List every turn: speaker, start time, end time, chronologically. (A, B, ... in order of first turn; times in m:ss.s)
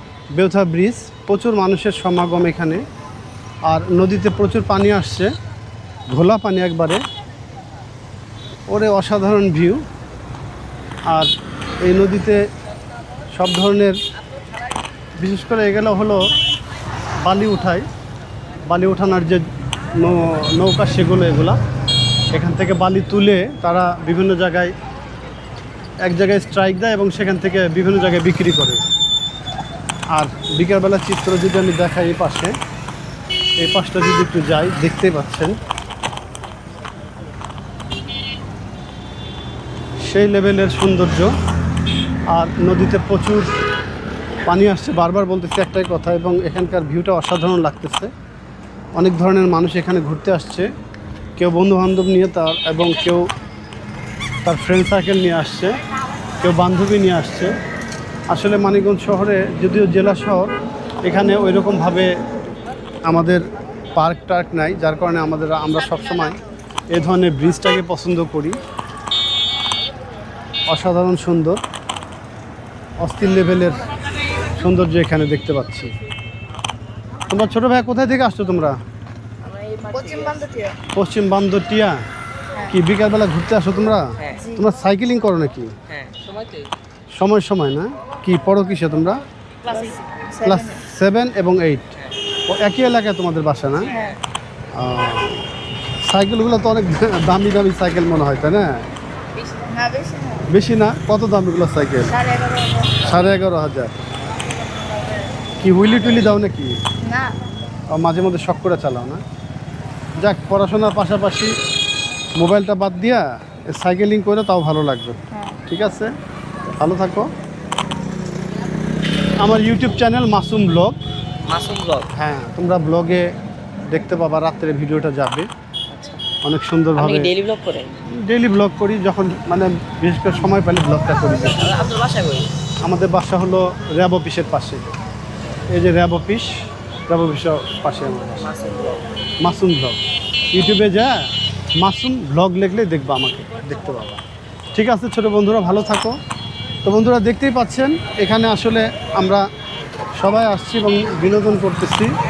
0:00.3-0:02.8 A
0:03.7-0:05.3 A
0:06.1-0:07.0 A
0:08.7-0:09.8 A
0:11.8-0:12.4 A
0:13.4-0:14.0 A
0:15.2-0:16.3 A
0:17.2-0:17.9 A
0:18.6-0:19.4 A
0:20.0-0:21.6 A
0:22.3-0:24.7 A
0:26.0-0:28.8 A
0:30.1-0:32.5 A
0:33.6-0:35.5 A
0:40.0-0:41.3 A
0:42.3-0:43.5 A
0:44.5-0:48.1 A
0:49.0-0:50.7 A
0:51.4-0:53.3 A
0:54.4-0:55.8 A
0:56.4-0:57.5 A
0:58.3-1:00.5 A
1:01.0-1:02.1 A
1:03.1-1:03.4 A
1:04.0-1:08.6 A
1:10.7-1:11.6 A
1:13.0-1:13.8 A
1:14.6-1:15.9 A
1:17.3-1:18.8 A
1:19.4-1:20.5 B
1:19.9-1:20.7 C
1:20.9-1:22.0 A
1:22.7-1:25.7 A
1:24.2-1:24.5 B
1:24.3-1:24.6 C
1:25.9-1:26.4 B
1:27.2-1:29.2 A
1:29.6-1:29.9 B
1:29.7-1:30.8 C
1:30.4-1:31.9 A
1:32.5-1:33.9 A
1:33.9-1:34.2 B
1:33.9-1:34.2 C
1:34.8-1:35.5 A
1:36.1-1:38.7 A
1:39.7-1:40.5 C
1:40.5-1:42.2 A
1:42.1-1:43.0 C
1:43.0-1:44.2 A
1:45.6-1:46.8 A
1:47.0-1:47.3 C
1:47.9-1:49.2 A
1:50.2-1:51.5 A
1:52.4-1:56.1 A
1:55.3-1:55.6 C
1:56.8-1:57.3 A
1:59.4-2:01.0 A
2:01.4-2:02.1 B
2:02.1-2:03.3 A
2:03.9-2:05.5 A
2:05.9-2:06.2 B
2:06.4-2:07.3 A
2:07.0-2:08.0 B
2:08.2-2:11.7 A
2:11.6-2:12.5 B
2:12.8-2:14.8 A
2:15.7-2:16.5 A
2:17.1-2:18.5 A
2:18.4-2:19.0 B
2:19.4-2:20.0 A
2:20.5-2:24.2 A
2:24.7-2:26.1 A
2:26.8-2:29.4 A
2:30.2-2:32.1 A